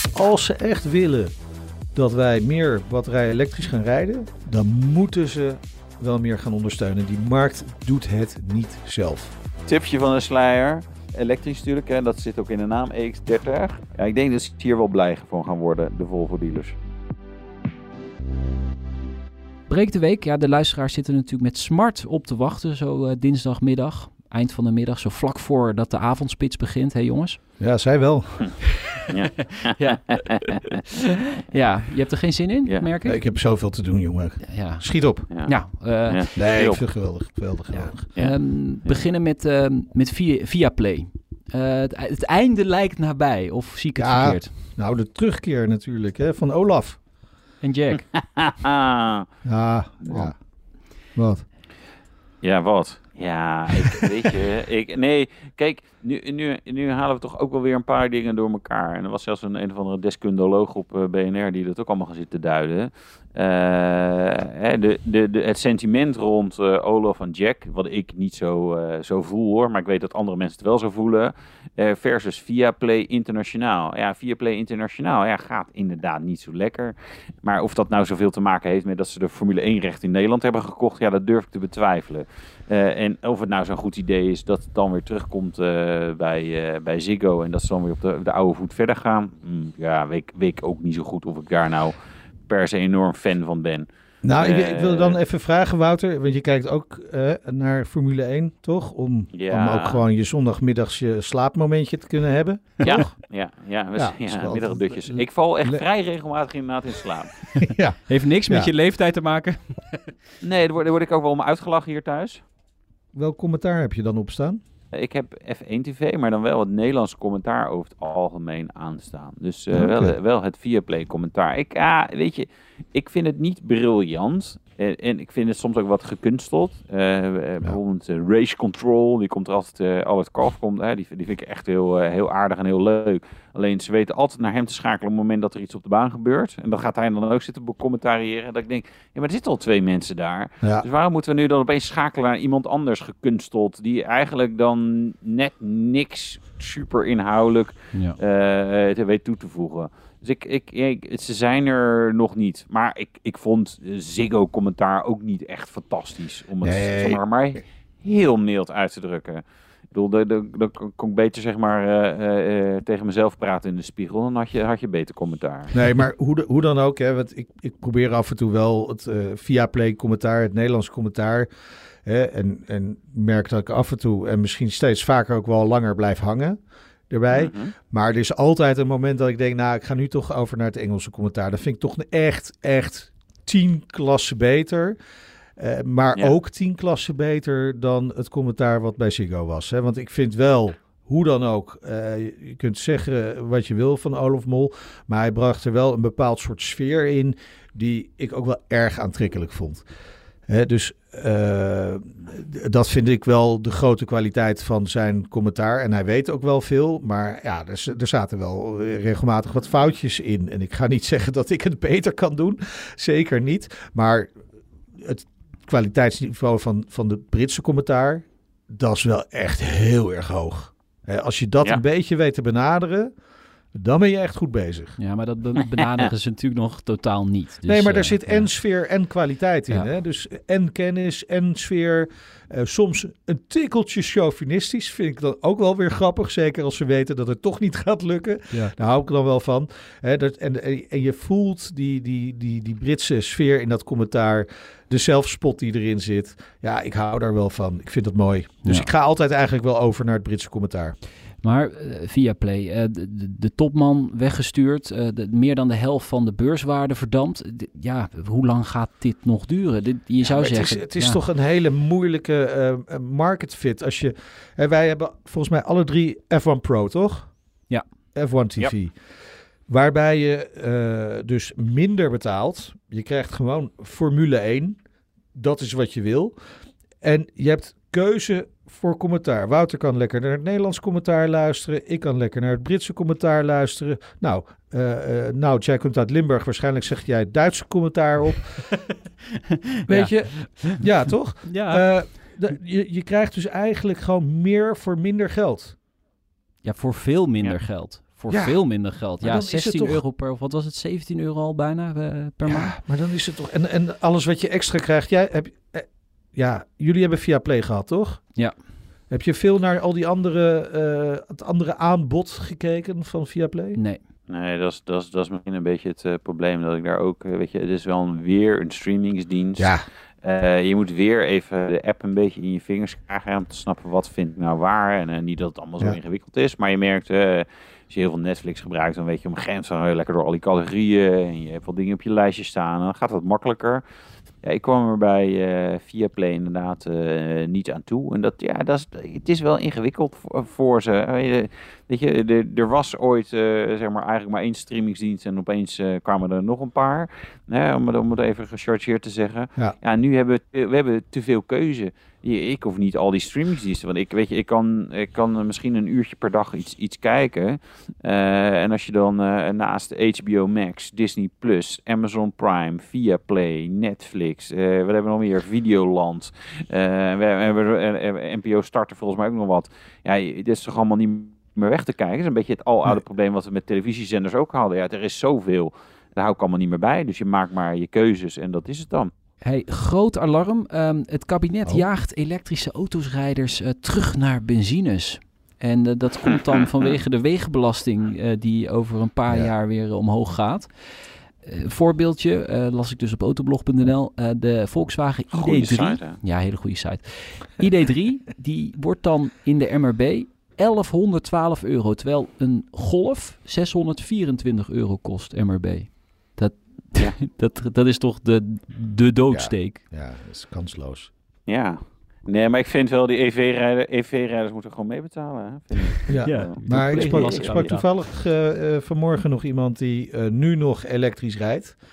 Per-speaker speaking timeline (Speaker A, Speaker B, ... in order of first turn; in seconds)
Speaker A: 0.1-1.3, 1.9-9.4, 27.6-28.8, 33.0-35.3, 36.4-38.0, 44.0-47.0, 49.5-51.5, 94.2-103.1, 104.0-105.8, 107.6-108.7, 113.1-114.6, 119.7-120.2, 156.6-157.2, 165.7-171.5, 172.0-176.6, 177.1-185.0, 185.6-199.8, 200.5-214.3, 214.9-223.1, 223.7-225.0, 227.7-251.0, 260.2-267.4, 268.1-269.0, 269.7-274.8, 275.4-276.4, 277.0-288.7, 289.9-295.8, 298.3-300.0, 302.5-308.3, 309.1-313.8, 319.6-319.9, 409.3-411.1, 416.1-421.8
Speaker B: 9.7-16.8, 29.1-30.5, 35.3-36.8, 38.1-39.0, 48.1-49.3, 50.0-50.3, 52.4-92.0, 92.5-93.9, 94.4-95.2, 99.3-100.0, 102.8-107.5, 110.4-112.4, 114.9-165.8, 177.3-177.7, 314.3-333.8, 334.4-379.1, 395.3-396.2, 411.5-417.5
Speaker C: 19.7-27.4, 29.8-30.6, 31.5-33.2, 34.5-36.3, 37.7-44.6, 47.6-48.1, 108.1-110.2, 225.0-228.5, 248.6-248.9, 251.4-261.2, 289.9-290.8, 291.4-292.2, 296.6-302.7, 313.8-314.0, 379.4-409.8, 416.2-417.9